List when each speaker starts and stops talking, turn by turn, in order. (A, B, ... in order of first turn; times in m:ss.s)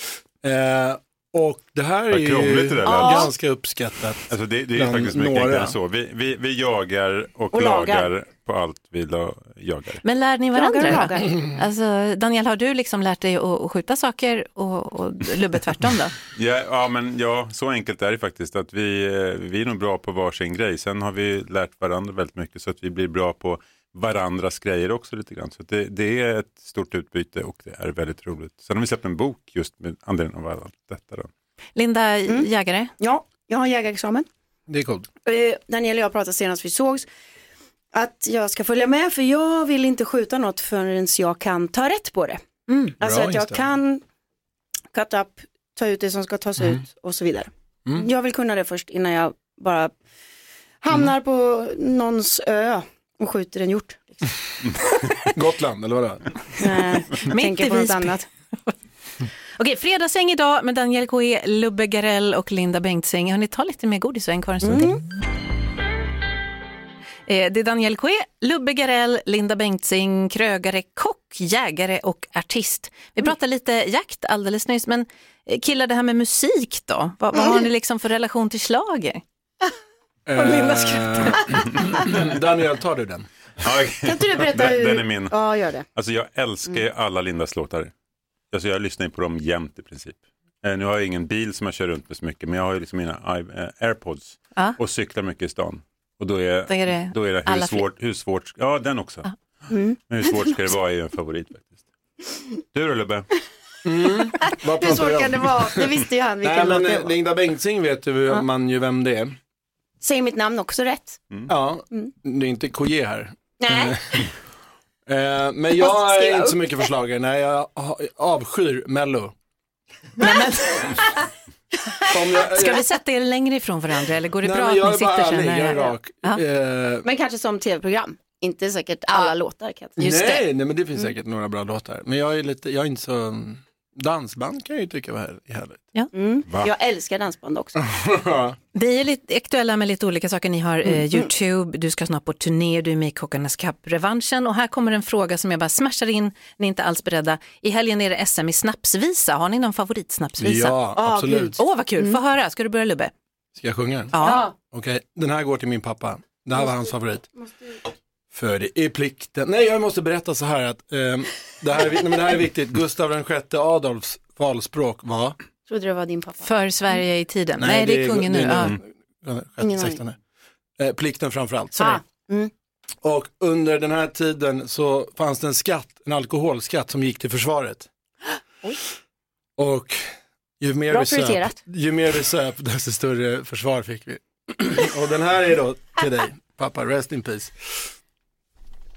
0:00.4-0:05.8 A
0:02.1-0:03.3 B
0:02.8-0:03.4 C
0:04.3-0:10.0 B
0:07.5-0:08.1 C
0:10.0-0:16.2 D
0:10.6-0:11.4 C
0:16.3-0:31.3 B
0:31.8-0:32.9 D
0:32.3-0:34.3 C
0:34.7-0:35.1 A
0:35.2-0:37.1 C
0:37.9-0:44.0 C
0:43.0-0:43.6 A
0:44.9-0:49.9 C
0:50.8-0:54.3 C
0:55.4-0:56.4 A
0:56.6-0:58.3 C
0:57.2-0:58.7 D
0:59.6-1:04.9 D
1:04.6-1:05.0 C
1:07.3-1:19.2 D
1:20.3-1:23.3 A
1:20.4-1:21.4 D
1:23.6-1:25.4 B
1:24.0-1:25.8 C
1:25.9-1:27.9 B
1:28.5-1:39.3 B
1:36.7-1:37.8 D
1:39.7-1:40.0 C
1:40.1-1:41.8 B
1:42.7-1:43.3 B
1:43.8-1:49.4 A
1:44.6-1:47.2 C
1:50.0-1:51.2 C
1:51.5-1:54.3 A
1:53.6-1:54.3 C
1:55.1-1:59.3 A
1:55.7-1:56.9 C
2:00.2-2:01.0 D
2:02.1-2:02.9 A
2:02.4-2:06.4 D
2:04.4-2:07.1 A
2:07.0-2:10.5 C
2:10.0-2:15.9 A
2:16.1-2:17.8 C
2:17.8-2:18.6 A
2:18.7-2:30.8 D
2:20.8-2:21.3 C
2:30.4-2:31.6 A
2:31.0-2:32.2 C
2:31.6-2:33.1 D
2:33.6-2:37.3 A
2:34.1-2:34.5 D
2:34.2-2:34.5 C
2:36.6-2:36.9 C
2:38.3-2:45.4 A
2:45.7-2:46.5 C
2:46.4-2:48.8 D
2:47.6-2:50.2 A
2:49.6-2:50.0 C
2:50.8-2:52.0 A
2:51.8-2:52.5 C
2:53.0-2:57.9 A
2:59.6-3:07.9 A
3:00.9-3:01.6 C